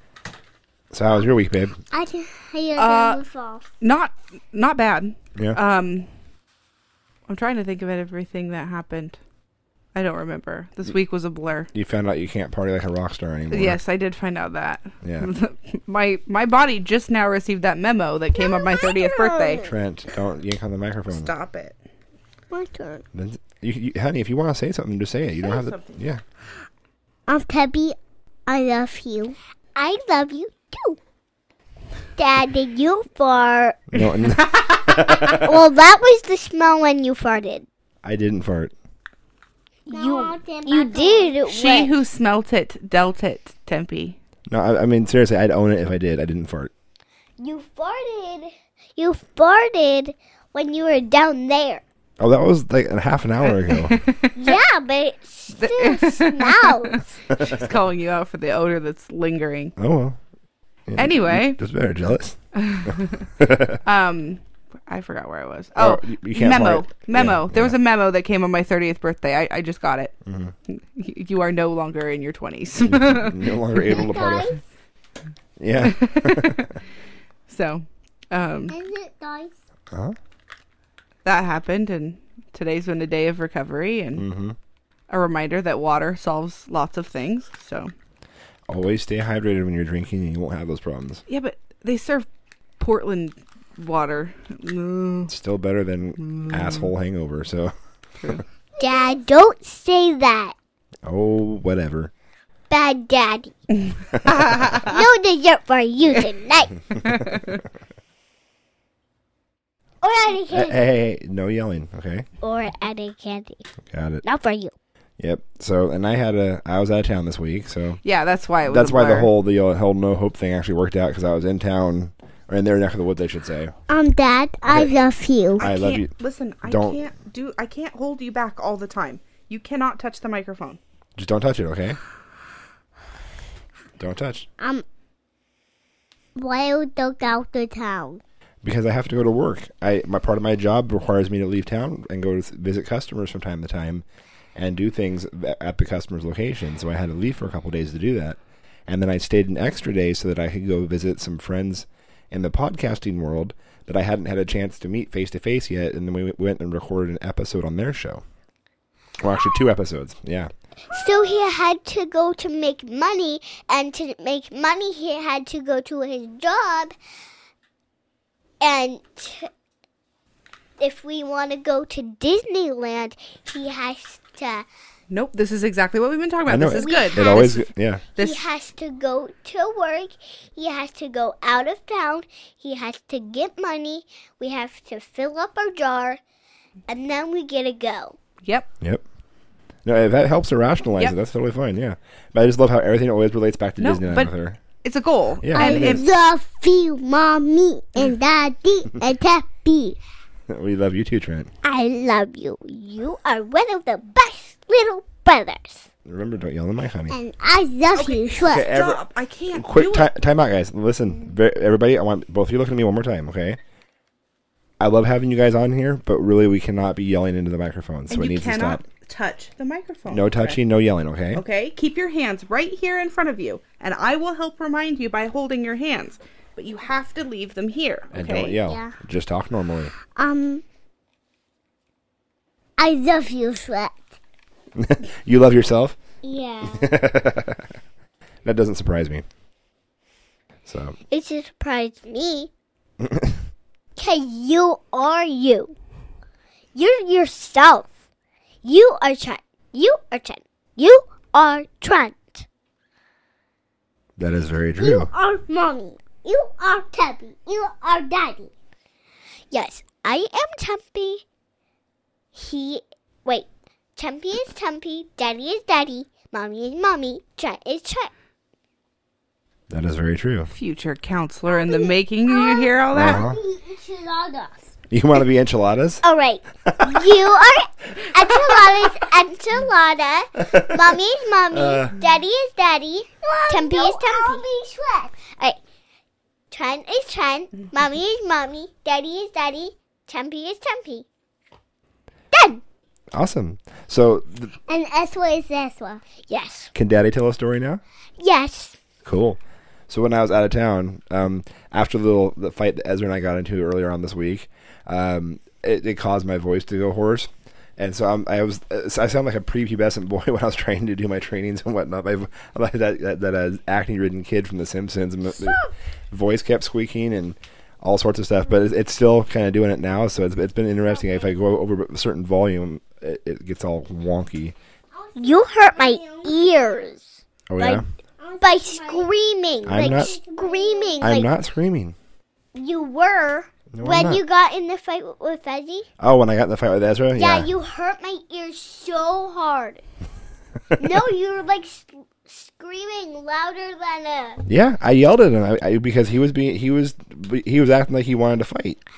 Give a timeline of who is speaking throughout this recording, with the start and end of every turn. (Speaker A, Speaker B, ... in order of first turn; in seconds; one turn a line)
Speaker A: 0.9-1.8
Speaker B: 1.9-3.7
Speaker C: 2.8-3.2
Speaker C: 3.8-6.1
Speaker C: 7.3-9.2
Speaker C: 9.9-11.7
Speaker A: 11.7-13.8
Speaker C: 13.5-19.6
Speaker A: 15.0-15.3
Speaker B: 18.4-19.4
Speaker A: 19.6-21.3
Speaker C: 21.1-21.8
Speaker B: 22.5-23.1
Speaker A: 23.1-26.2
Speaker C: 25.4-26.0
Speaker B: 27.3-29.4
Speaker D: 29.8-31.0
Speaker D: 32.2-33.8
Speaker A: 33.9-35.5
Speaker D: 35.0-37.7
Speaker A: 38.0-38.7
Speaker D: 39.9-41.9
Speaker B: 39.9-41.4
Speaker C: 41.5-44.2
Speaker A: 44.5-46.7
Speaker D: 47.4-51.8
Speaker A: 52.2-54.0
Speaker C: 53.5-54.3
Speaker D: 54.4-57.1
Speaker C: 55.6-59.8
Speaker A: 59.8-60.2
Speaker A: 60.9-63.8
Speaker C: 61.0-61.6
Speaker C: 62.5-63.3
Speaker C: 63.9-70.1
Speaker A: 65.8-67.8
Speaker A: 70.3-70.5
Speaker C: 70.7-74.0
Speaker A: 72.8-74.5
Speaker B: 73.9-74.6
Speaker A: 75.6-76.7
Speaker C: 75.8-76.8
Speaker C: 77.5-78.8
Speaker B: 78.7-79.6
Speaker A: 79.9-80.2
Speaker C: 81.2-84.3
Speaker A: 84.2-84.6
Speaker C: 85.1-87.9
Speaker A: 88.7-91.2
Speaker C: 91.3-92.2
Speaker C: 92.8-95.3
Speaker A: 95.3-97.7
Speaker C: 96.2-96.8
Speaker D: 98.8-100.5
Speaker B: 98.8-99.2
Speaker A: 101.0-102.1
Speaker D: 102.7-103.5
Speaker A: 104.1-104.6
Speaker C: 104.3-104.9
Speaker D: 104.8-106.8
Speaker C: 107.1-107.6
Speaker D: 110.0-110.8
Speaker A: 110.5-112.3
Speaker D: 112.4-113.6
Speaker A: 113.9-114.2
Speaker D: 114.3-114.7
Speaker A: 115.2-118.0
Speaker C: 118.0-119.3
Speaker A: 118.7-123.7
Speaker B: 123.9-125.7
Speaker A: 124.7-125.0
Speaker A: 125.6-127.0
Speaker C: 125.6-130.8
Speaker A: 131.2-132.0
Speaker A: 134.0-134.5
Speaker B: 134.6-134.8
Speaker B: 136.4-138.2
Speaker A: 138.6-144.1
Speaker A: 144.6-158.2
Speaker A: 159.2-160.5
Speaker D: 160.9-166.9
Speaker D: 168.6-169.5
Speaker D: 170.8-174.7
Speaker C: 175.1-178.4
Speaker A: 176.5-178.0
Speaker D: 176.8-177.5
Speaker D: 178.2-186.2
Speaker D: 186.9-188.2
Speaker A: 189.8-194.6
Speaker C: 193.8-194.3
Speaker C: 194.8-196.0
Speaker A: 195.4-196.0
Speaker B: 195.6-200.0
Speaker A: 200.5-201.5
Speaker B: 201.6-205.8
Speaker D: 204.6-205.2
Speaker A: 206.1-207.2
Speaker B: 207.1-208.7
Speaker C: 207.9-210.1
Speaker A: 208.4-209.0
Speaker A: 209.5-213.6
Speaker A: 214.8-218.8
Speaker C: 218.1-220.6
Speaker A: 220.1-221.4
Speaker C: 221.3-228.6
Speaker A: 228.1-229.9
Speaker B: 228.7-228.9
Speaker B: 230.2-230.6
Speaker B: 232.8-234.0
Speaker A: 234.8-236.0
Speaker B: 236.2-236.9
Speaker A: 236.7-237.7
Speaker A: 238.4-239.2
Speaker A: 240.7-241.0
Speaker D: 241.1-242.5
Speaker A: 243.0-243.4
Speaker D: 244.0-245.7
Speaker D: 246.8-247.9
Speaker D: 248.6-252.5
Speaker A: 254.2-255.1
Speaker B: 254.8-258.5
Speaker D: 259.5-261.2
Speaker D: 262.4-268.1
Speaker A: 269.7-270.5
Speaker C: 270.5-273.2
Speaker B: 271.7-274.7
Speaker A: 272.9-273.4
Speaker A: 274.9-276.0
Speaker D: 276.0-284.4
Speaker A: 276.7-277.0
Speaker A: 280.5-281.0
Speaker A: 281.5-281.9
Speaker B: 283.2-285.4
Speaker D: 286.5-291.1
Speaker D: 292.3-292.6
Speaker A: 293.1-294.5
Speaker B: 294.7-296.0
Speaker D: 296.2-296.7
Speaker A: 296.7-297.8
Speaker D: 298.2-298.8
Speaker A: 299.1-315.6
Speaker A: 316.1-324.6
Speaker B: 320.9-321.2
Speaker B: 324.9-326.4
Speaker D: 325.2-327.8
Speaker A: 327.5-327.9
Speaker B: 328.2-331.1
Speaker D: 328.4-331.3
Speaker A: 329.7-330.1
Speaker A: 331.0-332.0
Speaker D: 332.6-335.9
Speaker A: 333.7-334.2
Speaker A: 336.0-337.5
Speaker D: 337.1-339.8
Speaker D: 340.8-344.4
Speaker A: 344.5-348.8